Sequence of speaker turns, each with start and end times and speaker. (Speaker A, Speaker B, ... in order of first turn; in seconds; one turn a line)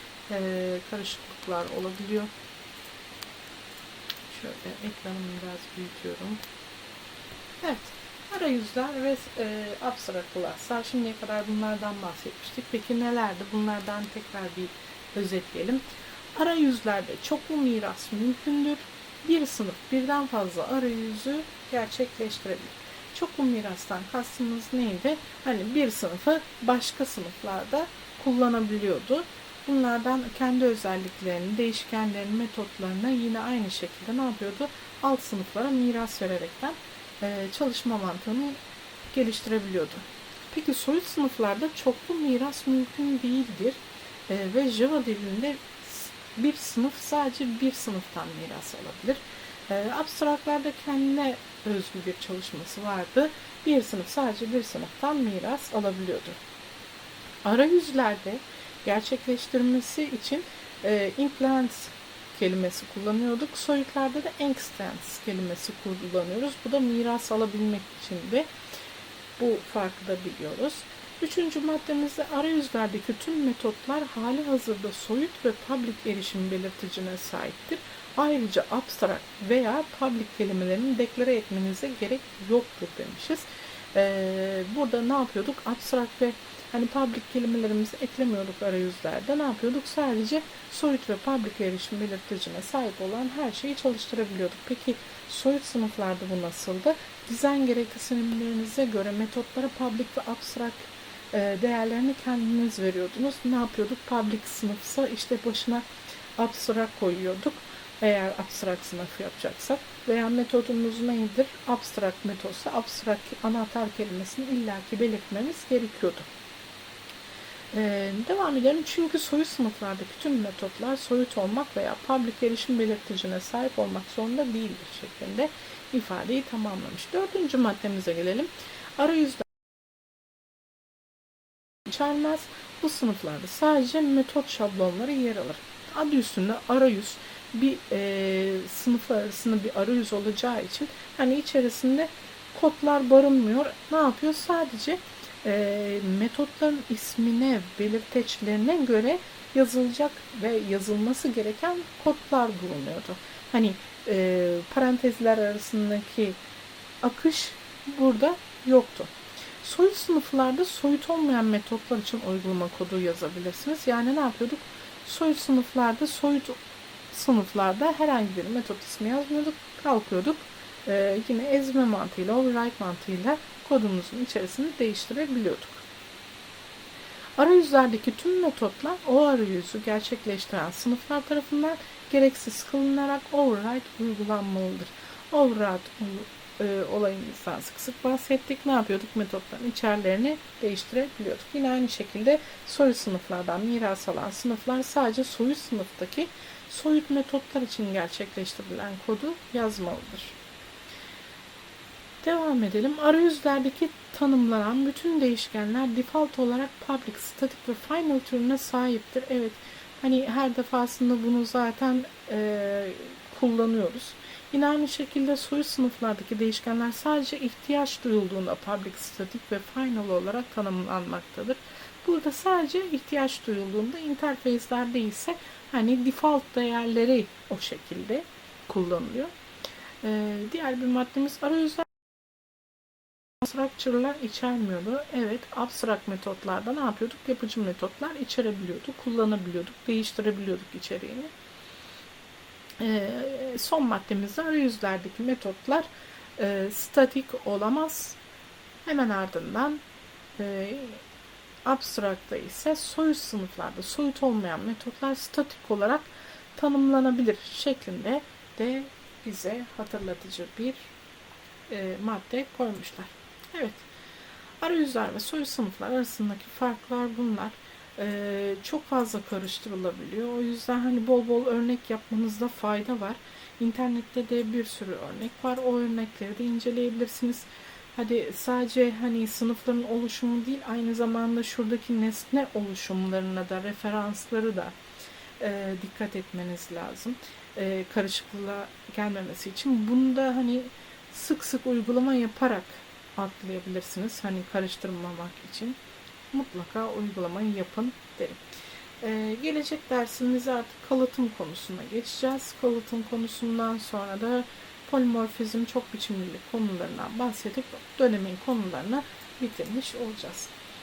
Speaker A: 0.3-2.3
Speaker A: 4.3-6.4
Speaker A: 7.6-15.8
Speaker A: 16.4-38.6
Speaker A: 39.1-56.4
Speaker A: 57.4-68.5
Speaker A: 69.4-105.9
Speaker A: 106.4-116.3
Speaker A: 117.7-129.4
Speaker A: 131.9-156.4
Speaker A: 157.0-166.6
Speaker A: 167.1-175.8
Speaker A: 177.4-200.4
Speaker A: 202.2-229.3
Speaker A: 230.0-231.9
Speaker A: 233.4-241.3
Speaker A: 242.8-248.2
Speaker A: 248.8-249.8
Speaker A: 250.4-251.0
Speaker A: 251.7-260.9
Speaker A: 261.7-263.9
Speaker A: 264.6-284.8
Speaker A: 285.4-295.8
Speaker A: 296.3-298.5
Speaker A: 299.0-310.5